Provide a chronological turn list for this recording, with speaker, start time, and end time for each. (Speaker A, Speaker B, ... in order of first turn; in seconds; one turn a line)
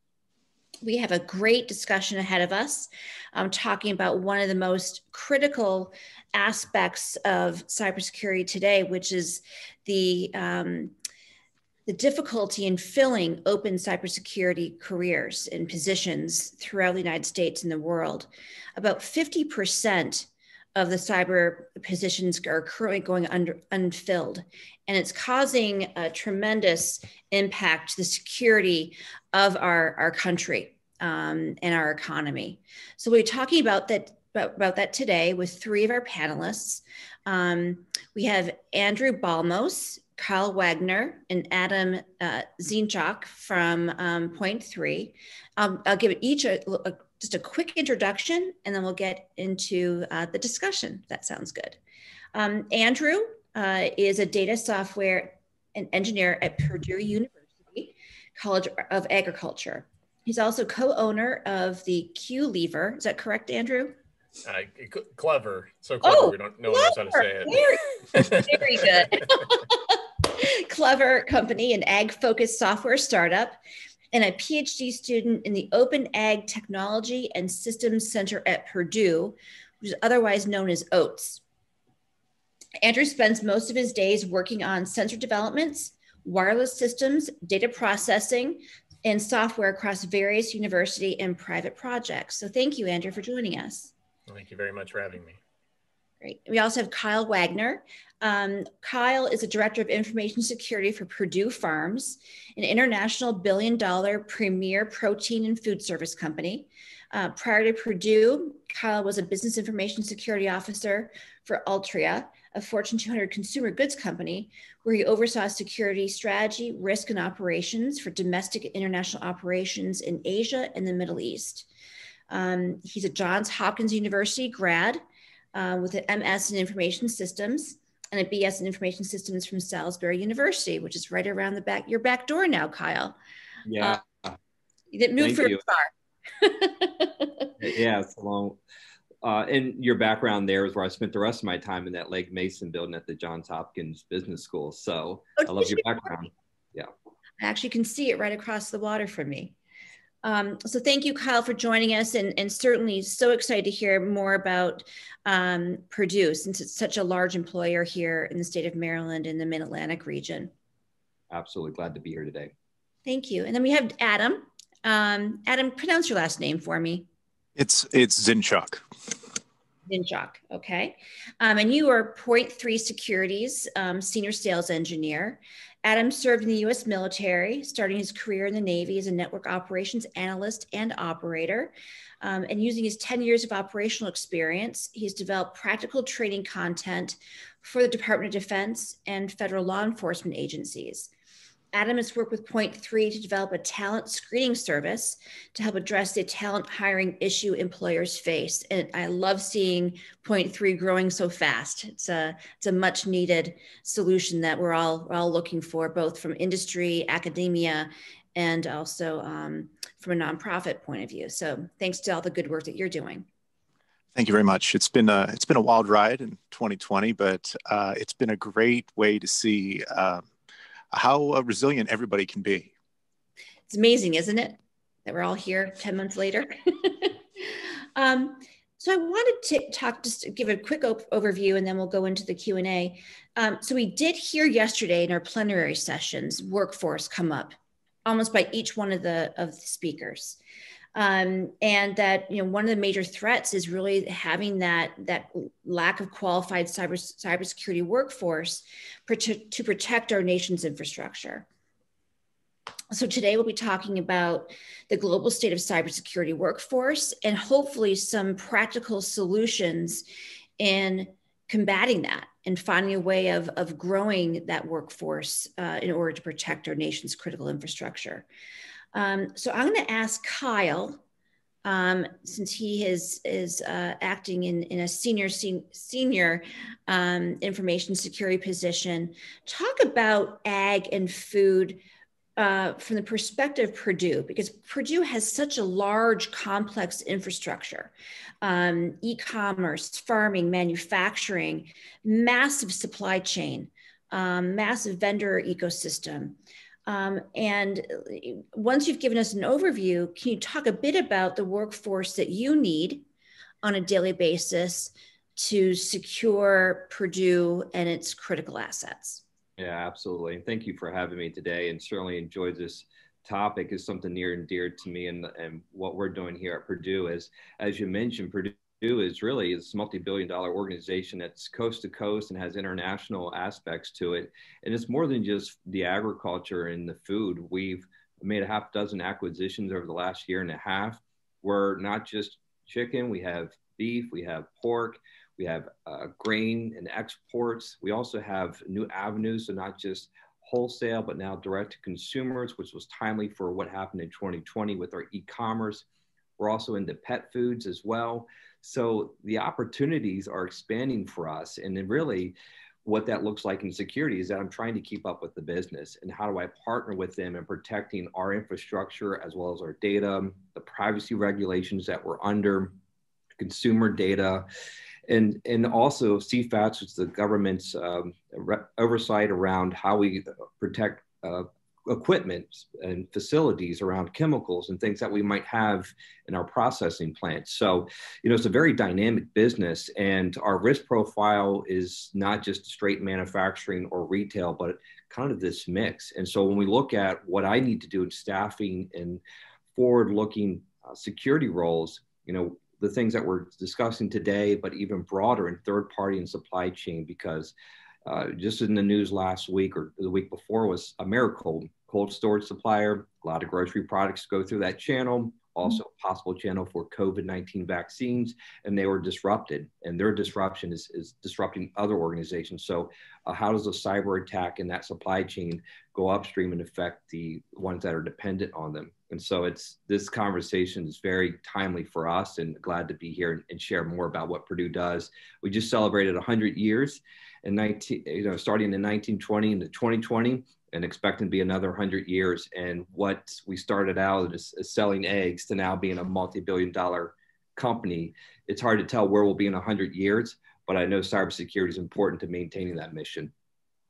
Speaker A: 0.8-10.9
Speaker A: 11.9-51.8
Speaker A: 52.3-64.0
Speaker B: 64.5-69.3
Speaker A: 66.0-73.6
Speaker A: 74.1-81.4
Speaker A: 82.8-93.9
Speaker B: 94.3-95.4
Speaker A: 96.2-121.7
Speaker A: 122.3-125.0
Speaker A: 125.5-133.2
Speaker C: 133.7-134.3
Speaker A: 134.9-137.5
Speaker C: 135.2-135.6
Speaker C: 137.6-138.6
Speaker C: 139.2-146.9
Speaker A: 145.4-146.1
Speaker A: 147.4-149.5
Speaker A: 150.2-160.5
Speaker C: 161.3-162.5
Speaker A: 163.1-167.1
Speaker D: 167.6-168.8
Speaker A: 169.9-191.1
Speaker A: 191.7-213.3
Speaker D: 214.2-220.3
Speaker D: 220.9-222.7
Speaker A: 223.7-240.4
Speaker A: 240.9-251.5
Speaker A: 252.9-260.0
Speaker A: 260.6-268.2
Speaker A: 268.9-271.0
Speaker A: 271.6-281.8
Speaker A: 282.4-303.0
Speaker A: 303.6-309.2
Speaker C: 309.6-345.9
Speaker C: 346.4-362.8
Speaker C: 363.4-364.5
Speaker C: 365.1-389.2
Speaker C: 389.8-397.5
Speaker C: 398.0-443.3